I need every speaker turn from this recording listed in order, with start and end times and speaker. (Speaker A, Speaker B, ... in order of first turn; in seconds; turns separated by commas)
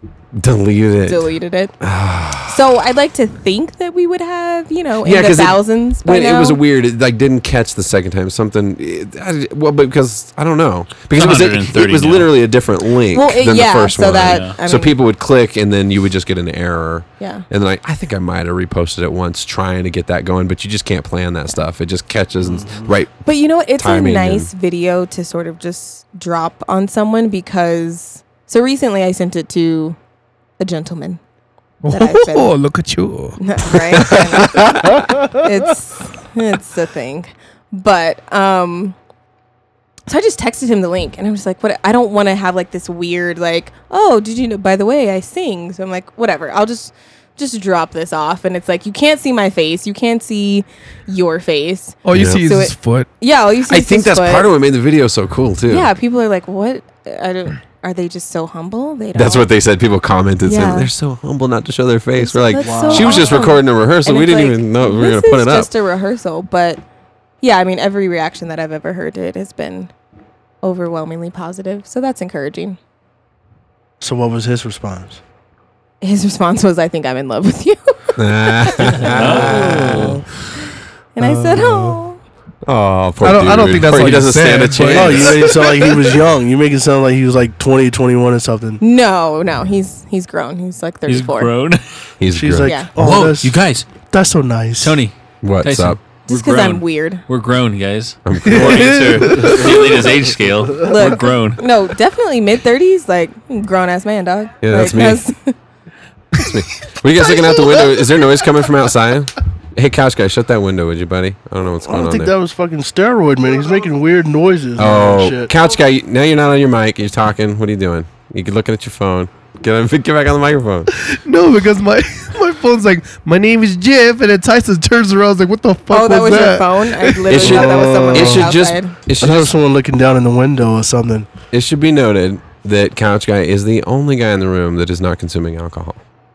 Speaker A: 0.3-2.7, Speaker B: 1.1-1.8, Speaker B: 2.5-6.6, Speaker A: 5.0-24.5, Speaker C: 11.1-12.3, Speaker B: 13.1-14.9, Speaker C: 14.3-14.6, Speaker B: 17.2-17.4, Speaker D: 22.4-22.9, Speaker B: 23.2-30.0, Speaker B: 30.6-31.2, Speaker E: 31.8-35.1, Speaker B: 31.9-32.5, Speaker B: 33.4-39.0, Speaker B: 40.1-54.5, Speaker E: 52.0-53.1, Speaker A: 52.1-52.4, Speaker A: 53.7-55.9, Speaker B: 55.7-59.5, Speaker A: 59.1-65.7, Speaker B: 60.5-60.9, Speaker B: 62.2-66.8, Speaker D: 62.6-63.5, Speaker B: 67.4-69.9, Speaker B: 70.6-72.8, Speaker D: 74.0-75.2, Speaker B: 76.0-79.1, Speaker A: 78.2-80.3, Speaker C: 79.0-80.2, Speaker D: 79.2-80.2, Speaker B: 81.2-82.2, Speaker D: 81.2-82.0, Speaker A: 82.7-85.9, Speaker E: 83.2-85.4, Speaker D: 84.9-88.8, Speaker B: 88.8-91.5, Speaker C: 91.1-91.8, Speaker A: 92.2-92.8, Speaker D: 92.3-95.0, Speaker B: 92.6-92.9, Speaker C: 93.0-93.9, Speaker C: 94.8-101.6, Speaker A: 95.4-96.0, Speaker B: 96.3-97.2, Speaker A: 98.3-99.3, Speaker E: 98.5-99.7, Speaker B: 100.8-105.5, Speaker A: 104.6-105.2, Speaker A: 106.3-112.3, Speaker B: 107.2-108.1, Speaker D: 111.8-115.5, Speaker A: 114.8-120.9, Speaker E: 121.0-127.3, Speaker B: 125.9-129.0, Speaker A: 127.3-129.5, Speaker D: 127.4-128.5, Speaker D: 129.2-131.3, Speaker A: 131.5-136.0